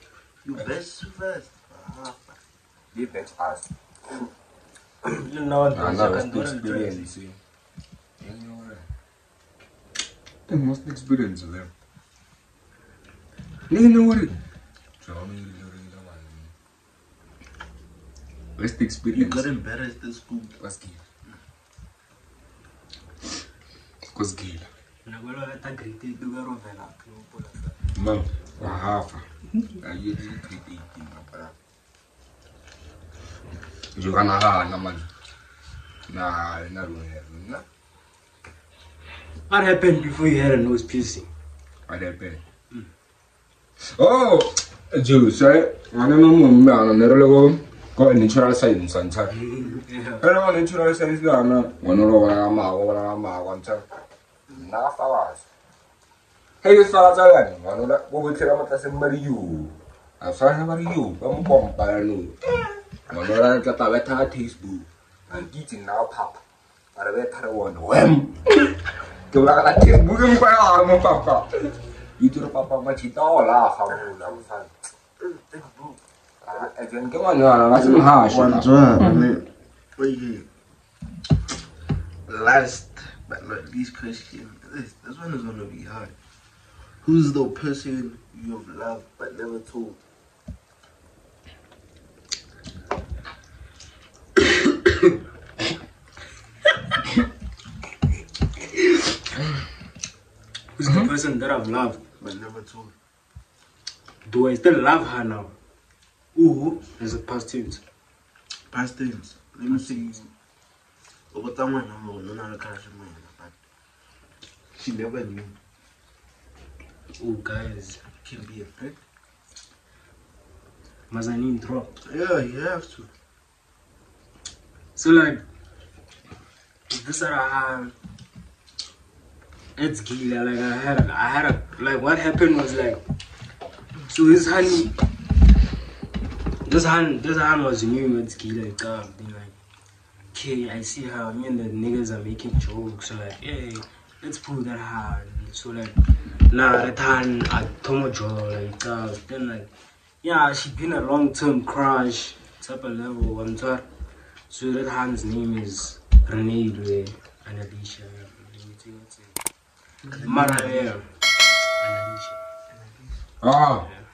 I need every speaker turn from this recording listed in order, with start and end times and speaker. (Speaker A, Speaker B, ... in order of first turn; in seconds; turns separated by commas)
Speaker A: 0.5-2.4, Speaker B: 2.9-4.2, Speaker C: 5.0-7.1, Speaker B: 5.7-7.4, Speaker B: 8.2-8.9, Speaker B: 10.5-11.7, Speaker B: 13.7-14.4, Speaker B: 15.0-16.5, Speaker B: 18.6-19.4, Speaker A: 19.1-20.6, Speaker B: 20.6-21.0, Speaker B: 24.1-24.7, Speaker C: 25.0-27.8, Speaker B: 27.9-29.2, Speaker B: 29.8-31.5, Speaker B: 33.9-35.1, Speaker B: 36.1-37.6, Speaker C: 39.5-41.3, Speaker B: 41.9-42.4, Speaker B: 44.0-49.4, Speaker C: 49.4-50.2, Speaker B: 50.2-53.8, Speaker B: 54.5-55.4, Speaker B: 56.6-62.5, Speaker B: 63.1-66.4, Speaker B: 66.9-68.7, Speaker B: 69.3-74.7, Speaker A: 73.9-74.4, Speaker A: 75.2-76.0, Speaker B: 76.4-78.7, Speaker A: 77.7-79.4, Speaker A: 80.0-80.5, Speaker A: 82.3-86.1, Speaker A: 87.0-90.0, Speaker C: 100.8-102.0, Speaker B: 100.8-101.1, Speaker A: 102.2-102.9, Speaker C: 104.2-105.5, Speaker C: 106.3-107.8, Speaker A: 108.7-110.3, Speaker C: 109.7-110.2, Speaker A: 111.3-113.5, Speaker A: 114.7-115.6, Speaker C: 117.2-118.0, Speaker A: 118.2-119.0, Speaker C: 121.1-121.9, Speaker A: 122.0-123.1, Speaker C: 124.9-125.4, Speaker C: 126.9-127.9, Speaker C: 129.8-133.0, Speaker C: 134.1-134.9, Speaker C: 136.6-139.5, Speaker C: 140.3-149.7, Speaker C: 150.2-153.8, Speaker C: 154.5-159.3, Speaker A: 160.1-160.9, Speaker C: 160.2-161.1, Speaker C: 161.8-162.4, Speaker A: 162.7-163.2, Speaker B: 163.4-163.9